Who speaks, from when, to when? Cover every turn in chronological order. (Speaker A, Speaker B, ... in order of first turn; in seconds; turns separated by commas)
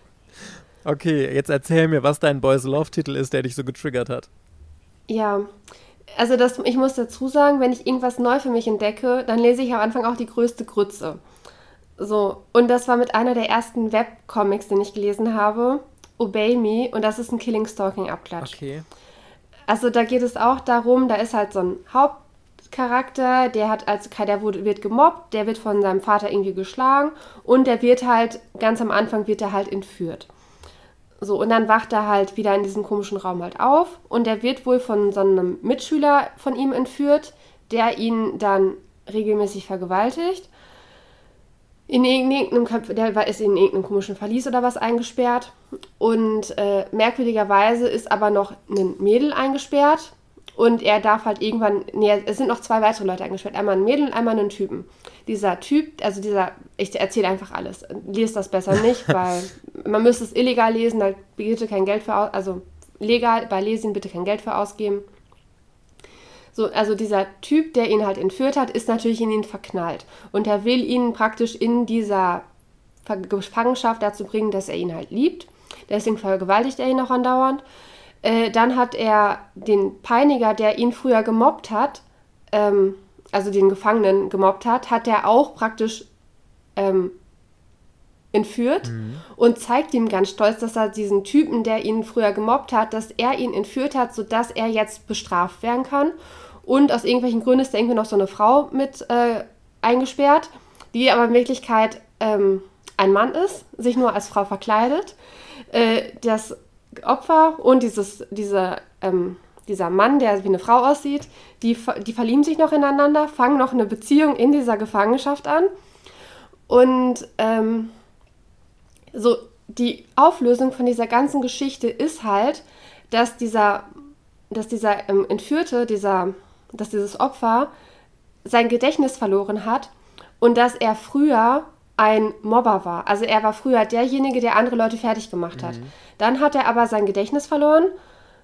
Speaker A: 0.4-4.3, Speaker B: 5.1-5.5, Speaker B: 6.1-11.2, Speaker B: 12.0-18.6, Speaker A: 18.4-18.8, Speaker B: 19.7-30.3, Speaker B: 31.2-40.5, Speaker B: 41.9-65.1, Speaker B: 66.5-72.5, Speaker B: 73.0-77.6, Speaker B: 78.2-86.1, Speaker B: 86.8-87.2, Speaker B: 88.3-105.2, Speaker A: 88.8-89.2, Speaker B: 105.7-115.7, Speaker B: 116.7-117.9, Speaker B: 119.1-123.9, Speaker B: 124.5-127.7, Speaker B: 128.4-137.9, Speaker A: 135.5-135.9